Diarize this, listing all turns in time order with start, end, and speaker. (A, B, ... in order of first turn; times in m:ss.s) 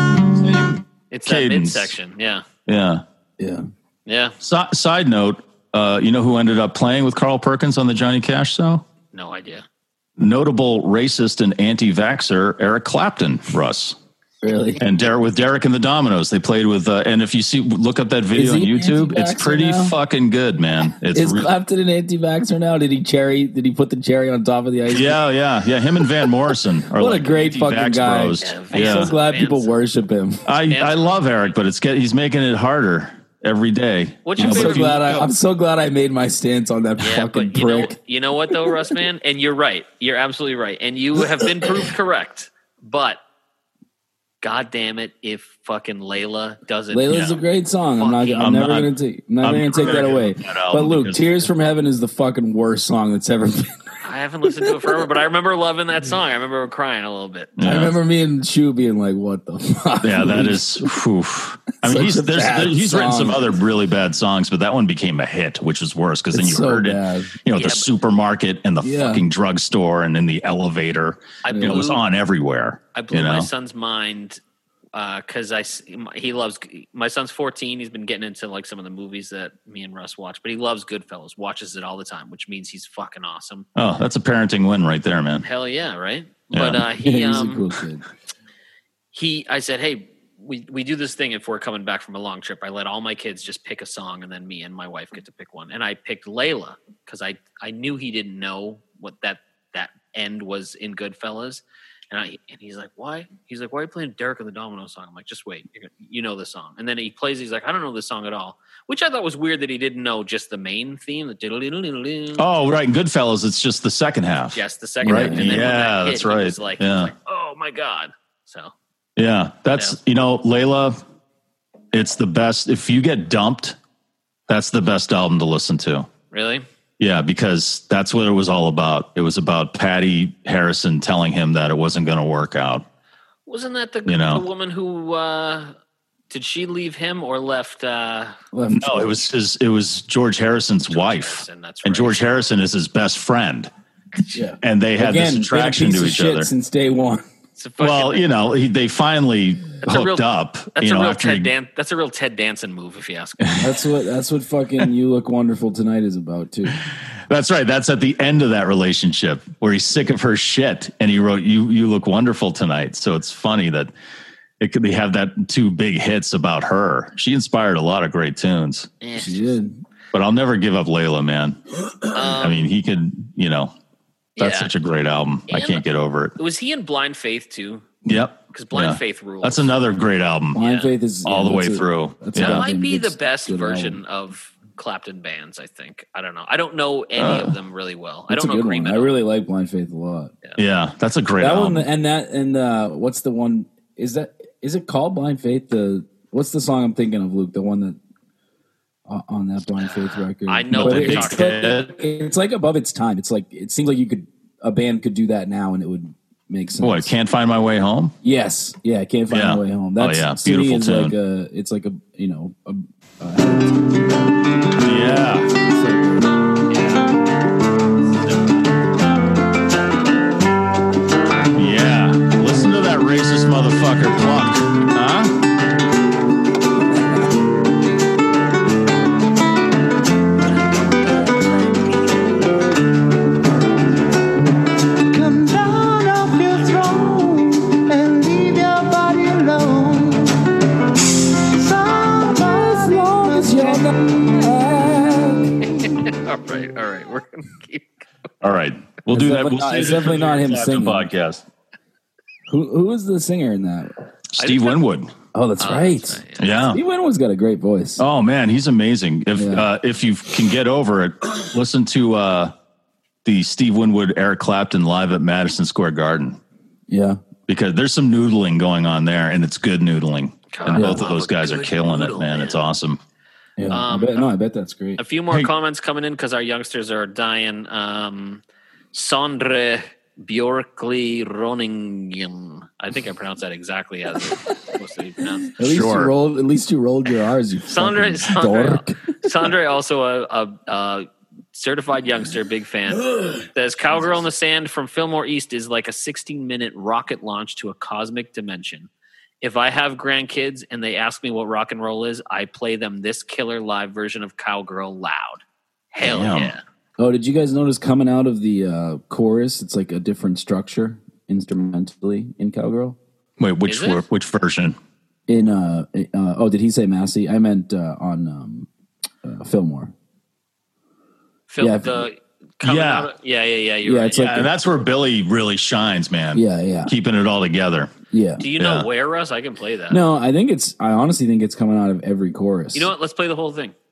0:00.3-0:01.9 A
0:01.1-0:02.4 B
0:02.7-0:03.0 A
0:03.4-0:03.7 C
0:04.1-0:04.4 B
0:04.4-0:08.8 A
0:09.1-0:09.6 B
0:10.2-0:14.0 A
0:14.4-0:14.8 C
0:14.8-0:21.5 A
0:18.3-0:20.0 C
0:21.0-0:25.2 C
0:24.9-0:29.1 A
0:26.9-0:30.4 C
0:28.4-0:29.7 B
0:30.4-0:35.1 A
0:30.7-0:31.3 B
0:34.2-0:35.3 B
0:34.4-0:38.0 C
0:37.0-0:43.2 B
0:38.5-0:38.9 C
0:41.4-0:41.8 C
0:44.4-0:47.4 B
0:46.9-0:53.8 C
0:48.0-0:48.5 B
0:48.4-0:51.2 A
0:54.0-0:57.6 B
0:54.6-0:55.0 C
0:57.6-0:58.0 A
0:57.6-1:00.9 C
1:00.0-1:13.5 A
1:01.8-1:03.6 C
1:06.3-1:07.4 C
1:07.5-1:07.9 B
1:08.8-1:09.2 C
1:11.4-1:12.0 B
1:11.5-1:11.9 C
1:12.9-1:14.4 B
1:14.9-1:23.7 B
1:23.8-1:25.4 A
1:25.4-1:27.7 B
1:26.5-1:26.8 A
1:27.0-1:28.0 C
1:29.1-1:52.5 B
1:52.4-1:57.1 A
1:54.5-1:58.7 B
1:55.0-1:55.6 C
1:59.2-2:01.0 A
2:01.9-2:03.8 A
2:04.5-2:06.1 A
2:06.3-2:06.7 B
2:07.0-2:12.8 A
2:13.5-2:15.8 B
2:14.1-2:14.4 A
2:16.3-2:18.3 B
2:18.5-2:19.3 C
2:18.8-2:23.7 A
2:20.9-2:22.5 B
2:24.3-2:27.2 C
2:24.6-2:26.5 A
2:27.6-2:28.3 B
2:27.8-2:31.5 A
2:29.8-2:33.6 B
2:33.4-2:33.7 A
2:33.6-2:36.8 C
2:37.3-2:43.9 A
2:44.6-2:48.9 A
2:49.0-2:49.6 B
2:49.1-2:49.8 C
2:50.1-2:51.6 A
2:52.1-2:52.6 B
2:52.2-2:53.7 A
2:54.4-2:54.7 B
2:54.4-2:56.4 A
2:55.5-2:55.8 B
2:56.4-2:57.8 B
2:58.0-3:00.6 A
2:58.5-2:59.7 B
3:00.5-3:04.0 C
3:00.6-3:00.9 B
3:01.2-3:02.7 A
3:02.4-3:09.2 B
3:07.2-3:07.5 A
3:08.3-3:10.4 C
3:10.6-3:11.9 A
3:11.4-3:18.0 C
3:19.1-3:27.1 C
3:19.8-3:21.9 B
3:20.7-3:21.9 A
3:26.8-3:28.1 A
3:28.2-3:34.3 C
3:29.3-3:31.2 A
3:34.8-3:35.5 A
3:35.6-3:36.2 C
3:36.7-3:37.2 B
3:38.2-3:38.6 B
3:41.5-3:45.4 A
3:55.1-4:00.4 D
4:01.5-4:03.9 D
4:02.7-4:05.5 C
4:05.6-4:08.0 B
4:08.4-4:11.4 A
4:09.1-4:11.1 C
4:12.5-4:14.0 C
4:14.3-4:15.1 A
4:14.4-4:14.8 B
4:15.3-4:18.0 C
4:15.6-4:16.5 B
4:16.4-4:16.8 A
4:18.0-4:22.5 A
4:19.4-4:19.7 C
4:23.2-4:26.4 A
4:26.9-4:27.2 C
4:27.5-4:33.0 A
4:30.5-4:32.6 B
4:30.7-4:31.1 C
4:33.6-4:35.0 C
4:33.7-4:34.3 B
4:35.0-4:45.5 B
4:45.6-4:49.0 C
4:45.6-4:46.1 A
4:47.7-4:58.9 B
4:59.4-5:05.4 B
5:05.9-5:06.6 B
5:06.0-5:06.5 A
5:07.0-5:13.0 C
5:13.4-5:14.8 A
5:13.7-5:14.0 B
5:15.3-5:18.7 C
5:19.2-5:19.9 C
5:21.5-5:24.2 B
5:21.6-5:22.1 C
5:22.6-5:23.1 A
5:23.8-5:24.5 C
5:24.2-5:27.9 A
5:26.3-5:26.9 C
5:28.1-5:28.4 C
5:28.4-5:30.0 B
5:28.6-5:28.9 A
5:29.9-5:32.9 C
5:32.7-5:33.7 B